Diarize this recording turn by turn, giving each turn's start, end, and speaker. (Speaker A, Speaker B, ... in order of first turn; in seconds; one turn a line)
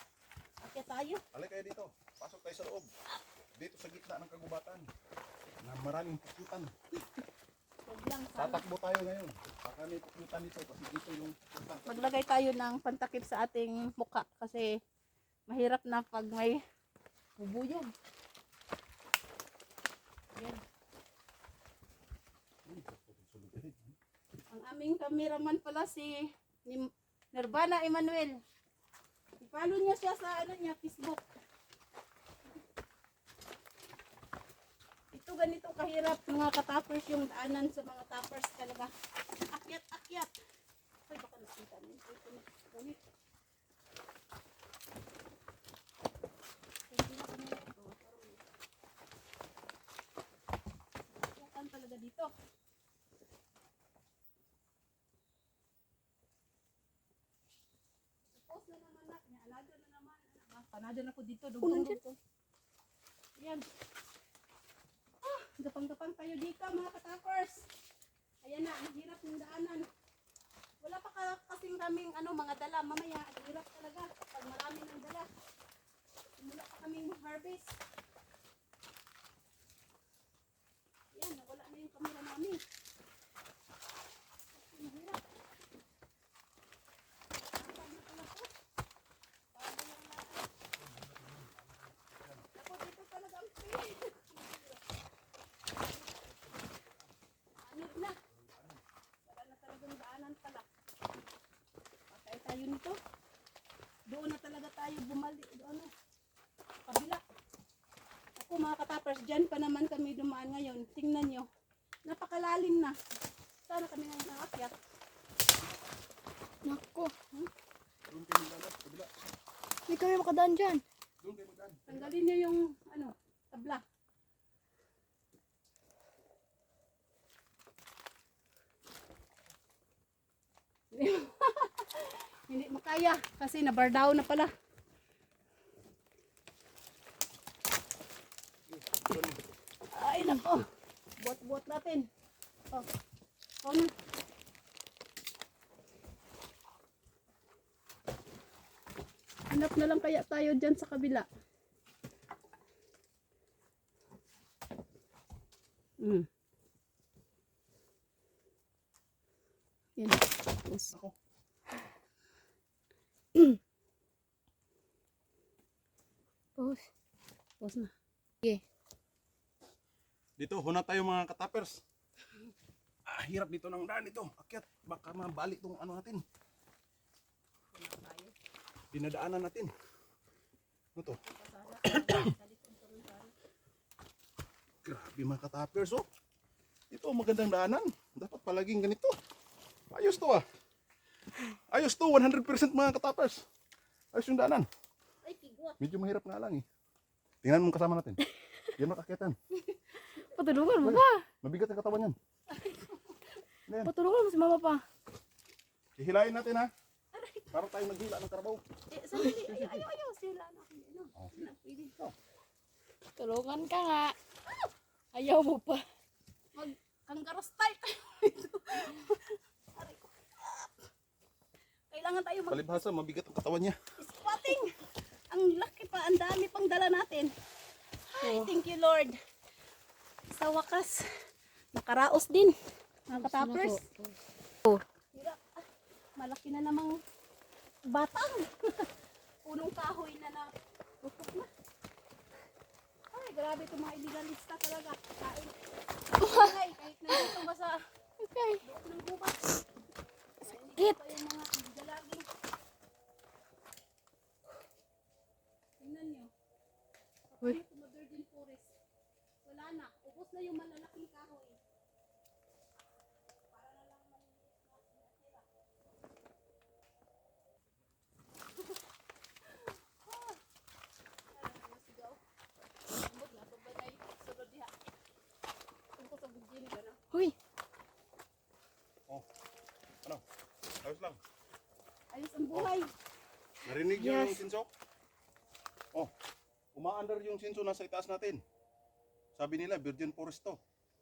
Speaker A: 0.6-1.2
Speaker B: 1.3-2.9
Speaker B: 3.6-4.9
Speaker B: 5.6-6.7
Speaker A: 7.8-8.7
Speaker B: 8.4-12.1
Speaker A: 11.9-14.7
Speaker A: 15.5-16.6
Speaker A: 17.4-17.9
Speaker A: 20.4-20.6
Speaker B: 22.7-23.9
Speaker A: 24.5-28.4
Speaker A: 29.4-31.2
Speaker A: 35.1-38.9
Speaker A: 39.4-40.3
Speaker A: 41.1-43.0
Speaker A: 46.9-48.4
Speaker A: 51.2-52.3
Speaker A: 58.3-62.2
Speaker C: 61.6-62.0
Speaker A: 63.4-63.6
Speaker A: 65.2-67.7
Speaker A: 68.4-69.9
Speaker A: 70.8-75.3
Speaker A: 76.4-77.8
Speaker A: 81.1-82.6
Speaker A: 84.6-85.2
Speaker A: 87.4-88.5
Speaker A: 89.5-90.5
Speaker B: 90.8-92.5
Speaker A: 92.5-94.8
Speaker B: 96.2-97.1
Speaker A: 97.7-98.1
Speaker B: 98.3-98.8
Speaker A: 99.3-100.7
Speaker A: 102.1-103.0
Speaker A: 104.1-105.9
Speaker A: 106.9-107.2
Speaker A: 108.4-111.5
Speaker A: 112.1-113.0
Speaker A: 113.7-114.7
Speaker C: 116.7-117.1
Speaker B: 118.1-119.3
Speaker C: 119.9-120.8
Speaker B: 121.2-122.1
Speaker A: 121.9-123.8
Speaker A: 130.9-134.5
Speaker B: 138.7-139.4
Speaker A: 139.9-140.6
Speaker A: 141.2-142.1
Speaker A: 143.6-143.9
Speaker A: 149.5-151.3
Speaker A: 156.0-156.3
Speaker A: 160.0-160.9
Speaker C: 166.6-166.8
Speaker A: 167.6-167.9
Speaker B: 170.4-171.8
Speaker B: 173.1-176.2
Speaker A: 177.7-178.3
Speaker B: 178.9-179.7
Speaker A: 181.2-183.3
Speaker B: 181.9-182.2
Speaker B: 184.8-186.1
Speaker B: 186.9-189.2
Speaker B: 189.9-190.4
Speaker B: 191.7-193.4
Speaker B: 194.1-194.7
Speaker A: 195.2-195.8
Speaker B: 195.8-196.6
Speaker B: 197.4-198.2
Speaker B: 198.8-199.4
Speaker C: 200.2-201.2
Speaker B: 200.8-202.2
Speaker A: 202.5-203.2
Speaker B: 203.7-203.9
Speaker C: 203.8-204.8
Speaker B: 206.0-206.7
Speaker A: 207.1-207.5
Speaker B: 207.5-208.6
Speaker A: 208.9-211.9
Speaker B: 209.5-209.8
Speaker C: 213.2-214.2
Speaker C: 215.1-215.8
Speaker A: 216.6-220.7
Speaker A: 221.9-222.7
Speaker B: 222.5-223.8
Speaker A: 224.0-224.7
Speaker A: 225.3-227.3
Speaker C: 228.1-228.6
Speaker A: 228.2-229.2
Speaker A: 230.3-231.0
Speaker A: 231.7-232.5
Speaker A: 233.1-233.8
Speaker C: 233.1-234.8
Speaker A: 235.1-235.6
Speaker A: 236.2-236.9
Speaker A: 237.9-238.9
Speaker A: 239.4-241.5
Speaker A: 243.1-245.5
Speaker C: 246.2-246.5
Speaker A: 246.2-247.8
Speaker C: 247.1-247.4
Speaker C: 248.2-248.6
Speaker A: 248.6-249.6
Speaker A: 250.4-252.3
Speaker A: 255.8-256.3
Speaker A: 257.4-258.7
Speaker A: 259.4-261.6
Speaker A: 263.5-265.4
Speaker A: 269.5-270.4
Speaker A: 271.3-272.2
Speaker A: 272.9-274.7
Speaker A: 276.0-277.0
Speaker C: 277.1-277.4
Speaker B: 280.8-281.2
Speaker A: 282.1-282.9
Speaker B: 283.6-284.7
Speaker C: 283.9-284.4
Speaker B: 286.8-288.4
Speaker B: 289.4-290.6